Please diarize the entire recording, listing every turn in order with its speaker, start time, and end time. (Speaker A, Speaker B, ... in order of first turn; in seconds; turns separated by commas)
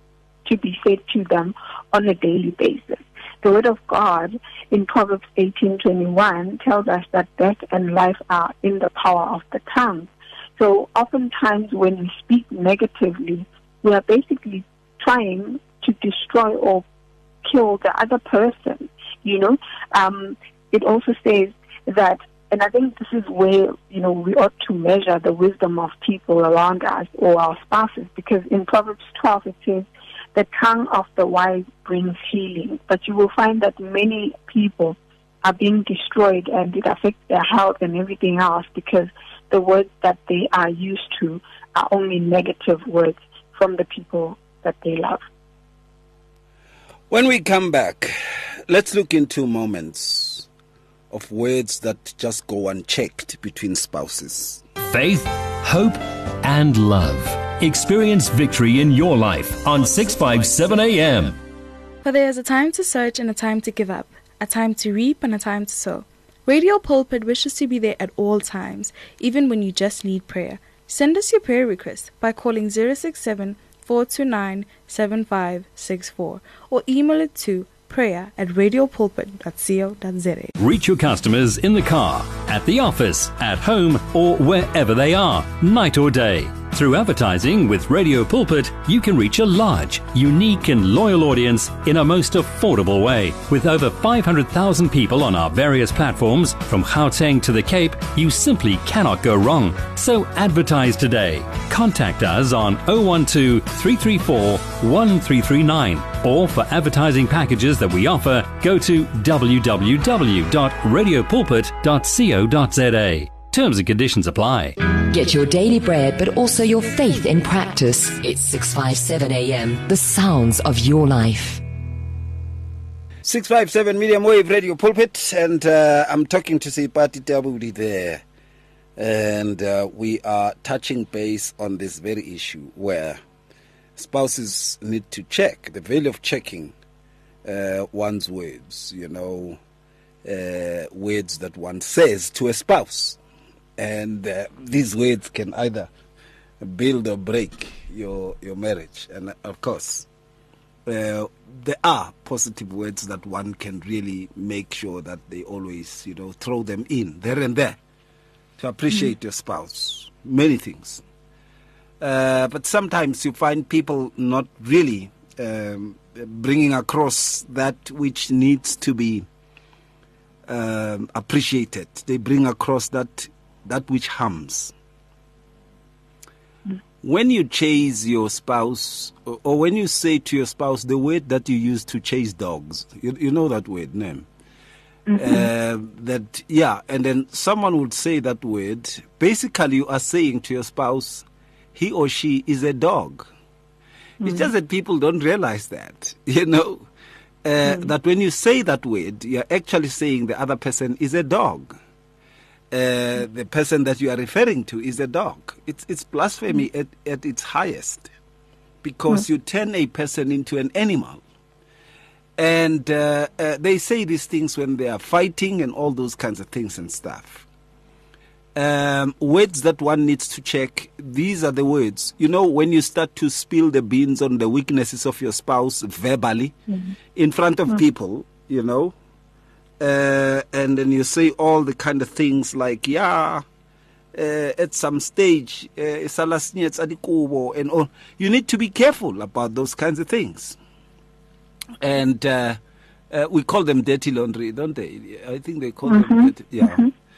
Speaker A: 0.4-16.8, Speaker A: 17.4-45.2, Speaker B: 47.1-50.5, Speaker B: 51.1-54.6, Speaker C: 54.9-61.4, Speaker D: 62.0-80.5, Speaker C: 80.6-114.8, Speaker E: 115.0-121.6, Speaker B: 123.2-128.2, Speaker B: 129.0-133.2, Speaker B: 133.9-136.7, Speaker B: 137.4-139.6, Speaker B: 140.2-143.2, Speaker B: 143.8-145.9, Speaker B: 146.6-150.1, Speaker B: 150.8-157.8, Speaker B: 158.6-161.0, Speaker B: 162.0-169.2, Speaker B: 170.4-174.7, Speaker B: 177.0-184.3, Speaker A: 185.1-185.4, Speaker B: 185.2-193.3, Speaker B: 194.2-196.9, Speaker B: 197.4-201.8, Speaker B: 202.7-208.1, Speaker B: 208.8-211.2, Speaker B: 212.4-217.4, Speaker B: 218.5-226.6, Speaker B: 227.1-228.9, Speaker B: 229.8-233.4, Speaker B: 234.1-240.6, Speaker B: 241.8-242.6, Speaker B: 243.1-246.8, Speaker A: 245.9-246.9